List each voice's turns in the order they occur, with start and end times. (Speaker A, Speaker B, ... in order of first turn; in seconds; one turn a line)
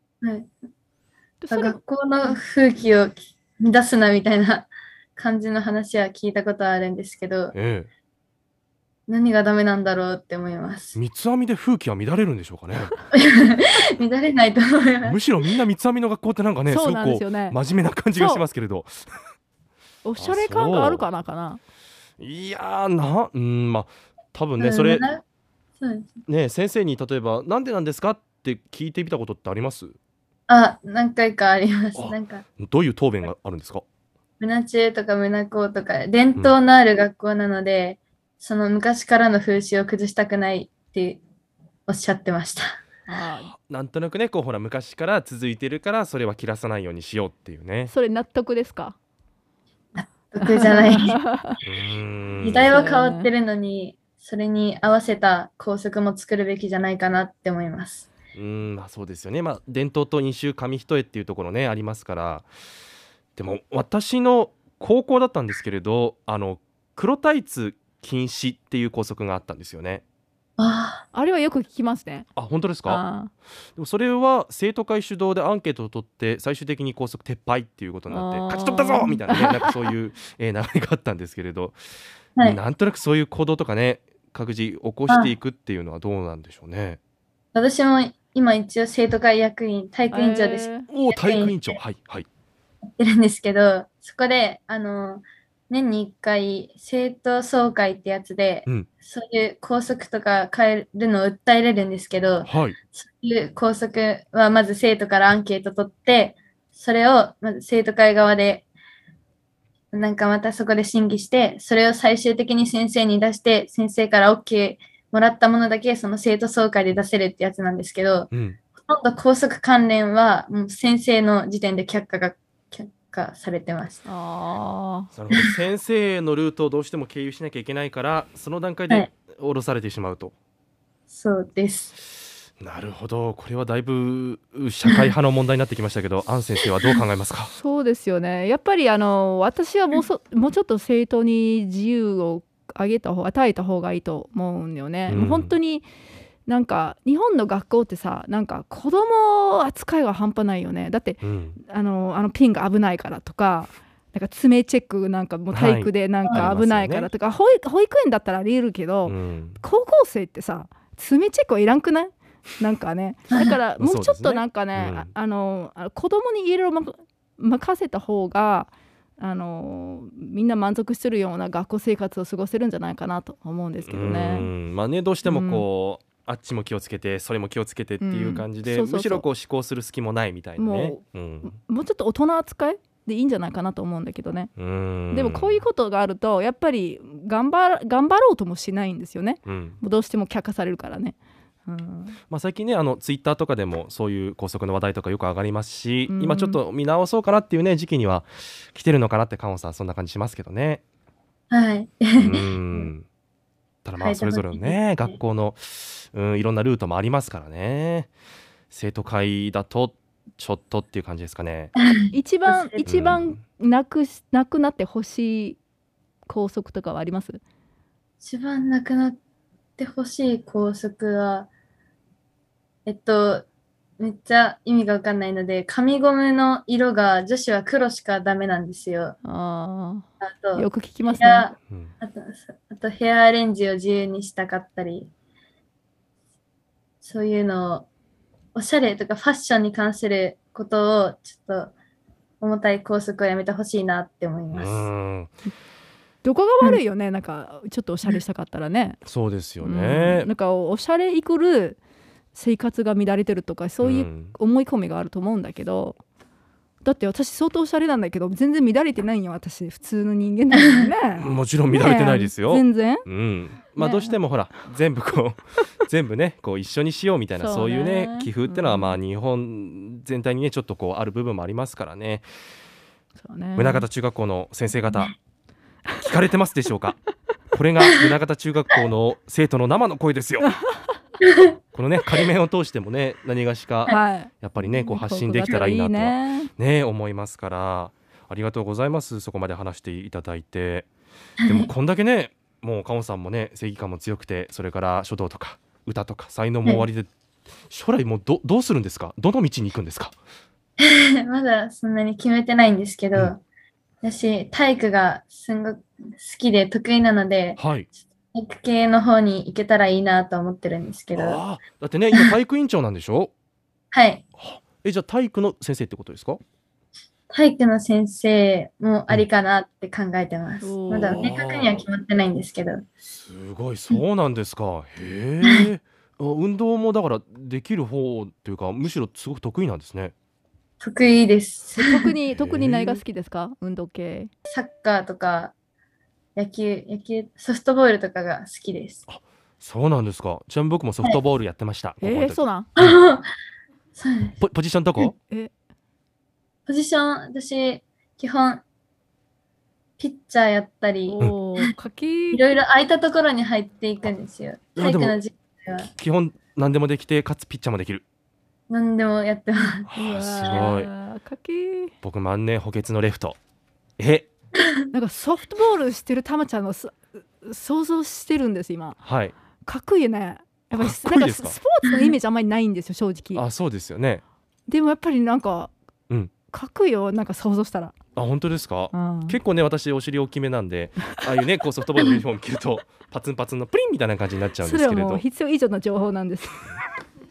Speaker A: 0.2-0.5
Speaker B: 1.4-2.4
Speaker A: 1.5-7.5
Speaker C: 7.5-7.9
Speaker A: 9.1-11.0
Speaker C: 10.9-12.9
Speaker A: 13.1-15.2
Speaker C: 15.0-19.1
Speaker B: 16.7-17.6
Speaker B: 18.1-18.4
Speaker B: 20.0-21.6
Speaker C: 20.2-21.1
Speaker C: 22.2-25.1
Speaker A: 24.6-25.2
Speaker A: 25.8-26.2
Speaker C: 26.3-30.0
Speaker A: 30.5-32.5
Speaker C: 31.9-33.8
Speaker A: 34.4-41.2
Speaker A: 41.9-42.8
Speaker B: 43.1-43.5
Speaker C: 43.5-47.9
Speaker B: 47.9-49.0
Speaker A: 50.0-51.2
Speaker B: 50.4-51.6
Speaker C: 51.6-52.8
Speaker A: 52.4-58.1
Speaker B: 52.7-53.3
Speaker C: 58.4-62.5
Speaker C: 63.4-70.0
Speaker A: 70.6-71.0
Speaker B: 71.1-72.3
Speaker C: 72.4-73.0
Speaker B: 72.9-73.3
Speaker C: 73.8-81.8
Speaker B: 78.1-79.9
Speaker C: 82.4-87.0
Speaker A: 85.1-85.3
Speaker A: 87.5-91.8
Speaker B: 90.1-90.9
Speaker C: 90.9-92.3
Speaker A: 93.0-108.7
Speaker C: 102.4-102.8
Speaker A: 109.9-124.0
Speaker C: 118.3-118.6
Speaker B: 124.1-125.1
Speaker C: 125.1-130.3
Speaker A: 131.1-131.9
Speaker C: 132.6-137.5
Speaker A: 134.9-135.1
Speaker B: 137.5-145.9
Speaker C: 145.1-145.6
Speaker B: 146.5-174.5
Speaker C: 151.2-151.6
Speaker C: 155.5-157.1
Speaker C: 159.1-159.6
Speaker A: 163.3-163.6
Speaker C: 163.8-165.1
Speaker C: 173.8-181.6
Speaker B: 175.2-175.7
Speaker B: 178.0-179.3
Speaker B: 180.6-184.5
Speaker C: 184.6-185.6
Speaker B: 185.1-191.2
Speaker C: 189.5-189.8
Speaker B: 191.7-192.2
Speaker C: 192.3-200.8
Speaker B: 196.1-196.6
Speaker A: 201.5-202.5
Speaker C: 202.2-203.1
Speaker C: 203.8-208.1
Speaker A: 204.0-205.2
Speaker C: 208.7-211.7
Speaker A: 211.8-213.2
Speaker B: 212.1-215.6
Speaker C: 212.9-213.4
Speaker B: 216.3-217.4
Speaker A: 218.2-219.2
Speaker A: 219.8-221.5
Speaker A: 222.9-223.5
Speaker A: 224.0-229.2
Speaker B: 229.2-231.5
Speaker A: 230.2-235.1
Speaker A: 237.0-237.9
Speaker A: 238.6-241.7
Speaker A: 242.4-244.9
Speaker C: 244.5-245.3
Speaker B: 246.2-249.0
Speaker C: 249.1-250.3
Speaker B: 249.6-251.8
Speaker B: 252.3-256.0
Speaker C: 253.8-254.3
Speaker B: 256.8-263.1
Speaker C: 261.2-272.3
Speaker B: 263.8-264.2
Speaker B: 267.4-269.0
Speaker B: 273.2-273.9
Speaker C: 273.6-275.1
Speaker C: 276.0-277.0
Speaker C: 277.5-280.5
Speaker C: 281.7-290.9
Speaker B: 283.9-286.5
Speaker A: 291.4-291.7
Speaker C: 291.5-297.1
Speaker C: 297.7-300.2
Speaker A: 300.8-303.4
Speaker A: 304.0-307.6
Speaker C: 307.6-307.9
Speaker A: 308.3-311.4
Speaker C: 311.1-313.3
Speaker A: 313.9-314.2
Speaker C: 314.4-316.4
Speaker A: 317.3-322.9
Speaker B: 320.6-321.2
Speaker C: 321.0-321.8
Speaker C: 323.1-330.1
Speaker A: 325.4-325.7
Speaker A: 330.8-332.1
Speaker B: 331.8-334.3
Speaker C: 332.3-333.0
Speaker A: 334.5-335.5
Speaker A: 336.4-339.0
Speaker C: 339.1-342.9
Speaker B: 342.0-342.7
Speaker A: 342.8-343.2
Speaker A: 344.0-344.4
Speaker C: 344.4-345.1
Speaker A: 346.7-348.6
Speaker A: 350.0-351.7
Speaker B: 351.1-352.4
Speaker A: 352.3-355.9
Speaker C: 354.8-355.2
Speaker C: 355.9-358.1
Speaker A: 358.7-359.9
Speaker C: 359.9-360.9
Speaker B: 359.9-361.9
Speaker C: 362.0-363.4
Speaker C: 364.0-364.3
Speaker B: 364.9-369.0
Speaker C: 369.0-369.4
Speaker B: 369.6-373.4
Speaker C: 370.7-371.6
Speaker C: 373.4-374.2
Speaker B: 374.7-375.7
Speaker B: 376.5-377.9
Speaker C: 378.2-385.2
Speaker B: 378.9-379.4
Speaker B: 384.6-386.7